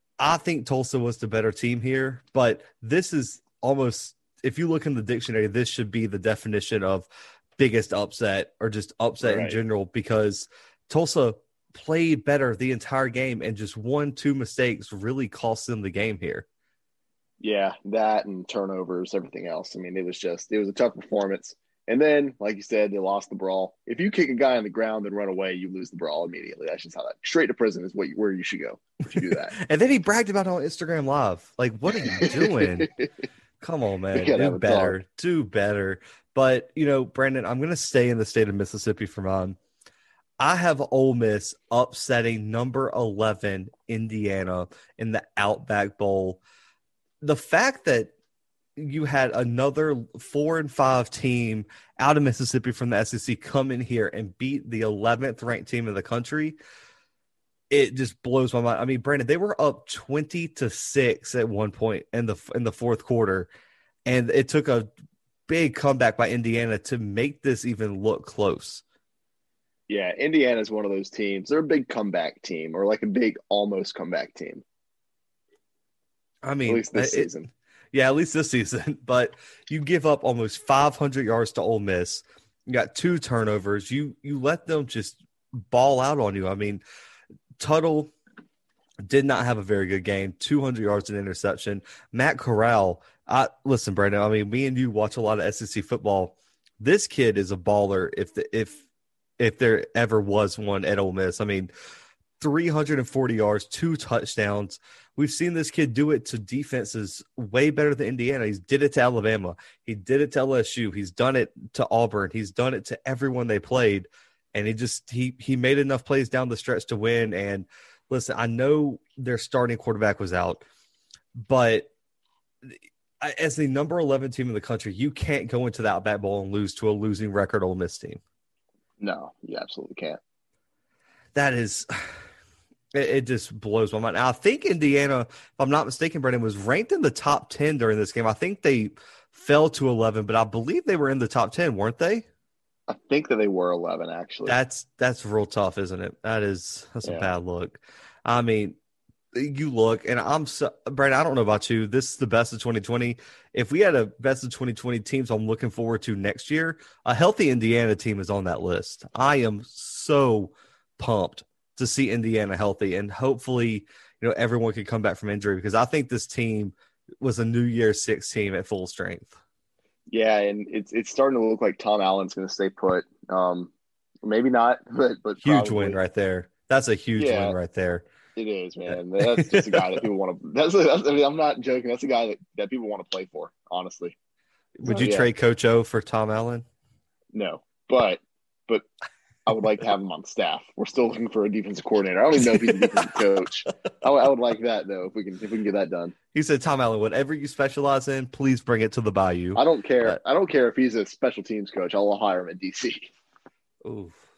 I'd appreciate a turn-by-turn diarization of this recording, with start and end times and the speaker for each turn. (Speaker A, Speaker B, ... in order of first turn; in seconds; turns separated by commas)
Speaker A: 0.2-7.1, Speaker A: 7.6-16.4, Speaker B: 9.2-9.6, Speaker B: 17.4-29.5, Speaker A: 29.1-32.9, Speaker B: 31.9-33.1, Speaker A: 33.6-39.6, Speaker B: 34.1-35.0, Speaker A: 40.4-46.4, Speaker A: 47.2-48.1, Speaker A: 48.8-56.6, Speaker A: 57.7-63.5, Speaker A: 64.0-64.9, Speaker A: 65.5-68.8, Speaker B: 69.9-74.6, Speaker A: 76.4-77.3, Speaker B: 76.7-77.5, Speaker A: 77.9-86.8, Speaker A: 87.6-88.1, Speaker A: 89.1-98.8, Speaker A: 99.4-101.7, Speaker A: 102.4-120.6, Speaker A: 121.3-121.9, Speaker A: 122.7-128.2, Speaker B: 129.0-130.2, Speaker A: 131.3-132.1, Speaker A: 132.9-142.2, Speaker B: 142.9-144.6, Speaker A: 144.4-148.8, Speaker A: 149.3-169.4, Speaker B: 170.1-173.7, Speaker B: 174.2-176.0, Speaker A: 175.4-178.1, Speaker B: 177.2-177.5, Speaker B: 178.3-184.1, Speaker A: 179.2-179.9, Speaker A: 184.8-186.6, Speaker B: 184.8-185.3, Speaker B: 187.3-188.9, Speaker B: 189.5-196.1, Speaker A: 192.4-193.2, Speaker A: 196.3-200.2, Speaker B: 199.5-203.1, Speaker A: 203.8-204.2